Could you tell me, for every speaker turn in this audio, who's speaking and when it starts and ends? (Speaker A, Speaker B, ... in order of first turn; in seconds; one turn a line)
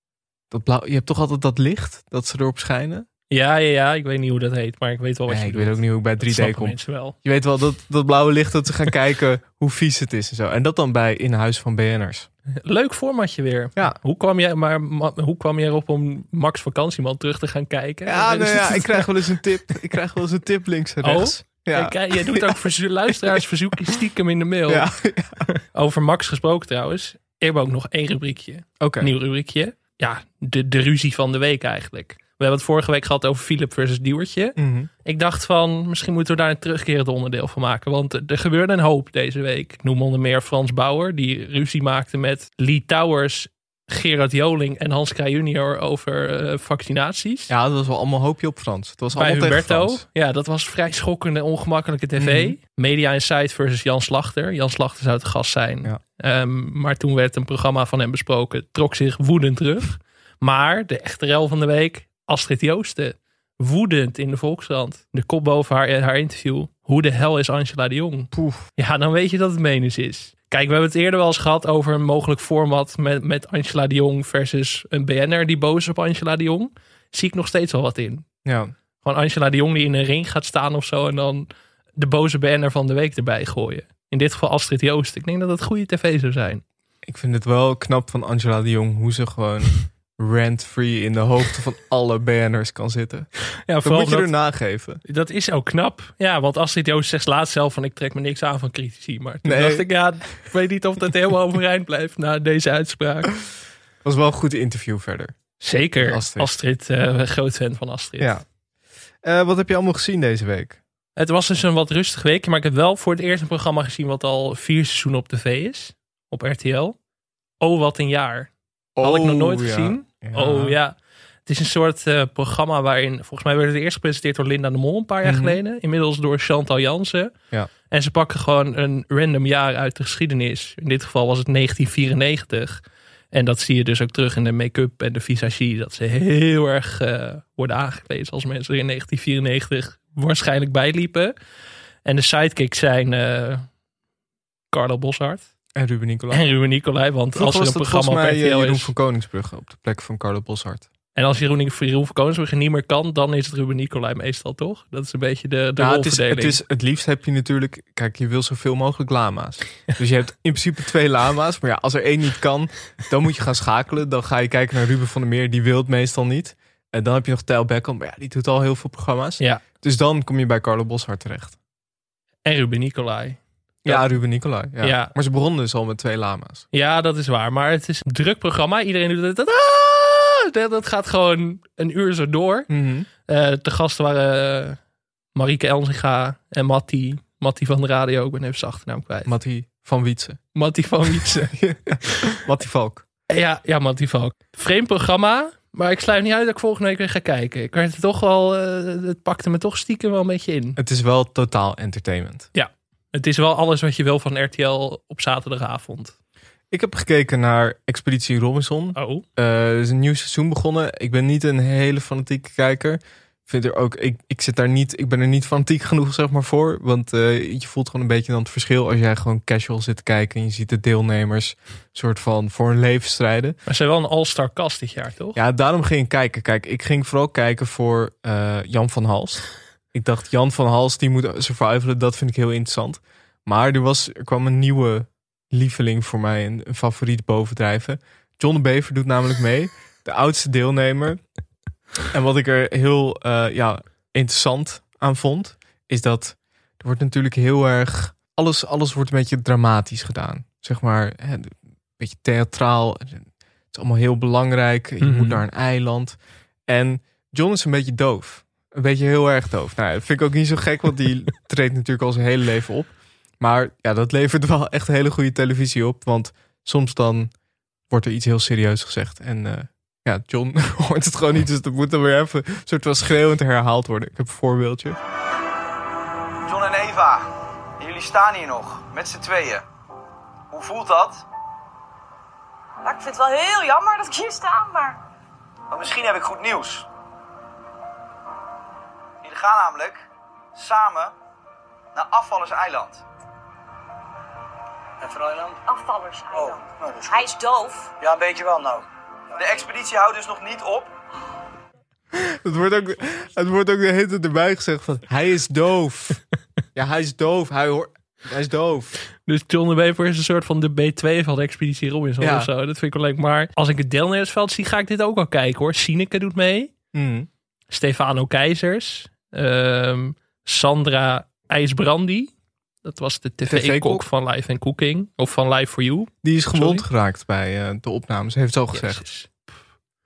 Speaker A: 0.5-3.0
Speaker B: 3.3-7.2
Speaker A: 5.3-12.3
Speaker B: 12.5-19.1
Speaker A: 18.1-22.6
Speaker B: 21.0-24.9
Speaker A: 24.7-25.4
Speaker B: 25.4-47.5
Speaker A: 28.8-29.1
Speaker A: 34.6-34.9
Speaker A: 47.5-50.0
Speaker B: 49.1-78.2
Speaker A: 52.2-52.5
Speaker A: 68.3-68.7
Speaker A: 78.4-78.7
Speaker B: 79.0-86.6
Speaker A: 87.1-93.3
Speaker B: 93.7-94.3
Speaker A: 93.8-95.0
Speaker B: 95.0-103.3
Speaker A: 99.4-99.8
Speaker A: 104.0-105.3
Speaker B: 105.6-108.4
Speaker A: 106.0-106.5
Speaker A: 109.2-110.8
Speaker B: 111.2-117.0
Speaker B: 117.6-127.3
Speaker A: 119.0-120.8
Speaker A: 125.2-125.6
Speaker B: 127.9-132.8
Speaker B: 133.3-141.3
Speaker B: 142.0-143.7
Speaker B: 144.7-145.4
Speaker A: 145.7-146.4
Speaker B: 146.3-148.9
Speaker A: 147.3-150.8
Speaker B: 151.1-156.6
Speaker A: 155.8-171.6
Speaker B: 172.4-174.1
Speaker A: 173.8-176.6
Speaker B: 174.8-175.1
Speaker B: 176.7-182.7
Speaker A: 182.7-183.1
Speaker B: 183.2-184.8
Speaker B: 185.3-189.3
Speaker A: 189.2-190.4
Speaker B: 190.5-191.5
Speaker A: 191.5-193.0
Speaker B: 193.3-200.8
Speaker A: 200.8-202.5
Speaker B: 202.5-206.1
Speaker A: 206.7-223.6
Speaker B: 208.9-209.2
Speaker B: 223.7-225.4
Speaker A: 225.3-241.2
Speaker A: 242.1-267.3
Speaker B: 255.0-255.4
Speaker A: 267.9-275.0
Speaker C: 276.4-279.6
Speaker C: 280.5-281.2
Speaker D: 282.8-285.0
Speaker C: 285.7-286.9
Speaker C: 289.2-290.0
Speaker C: 290.5-291.1
Speaker C: 291.9-293.0
Speaker C: 295.0-295.6
Speaker D: 295.6-297.9
Speaker C: 296.3-297.3
Speaker C: 298.0-300.9
Speaker A: 302.1-306.2
Speaker A: 306.7-308.9
Speaker B: 309.2-316.7
Speaker A: 312.2-312.5
Speaker A: 316.9-317.3
Speaker B: 317.7-322.3
Speaker B: 322.8-326.9
Speaker A: 323.5-324.0
Speaker A: 326.2-329.0
Speaker B: 328.7-329.4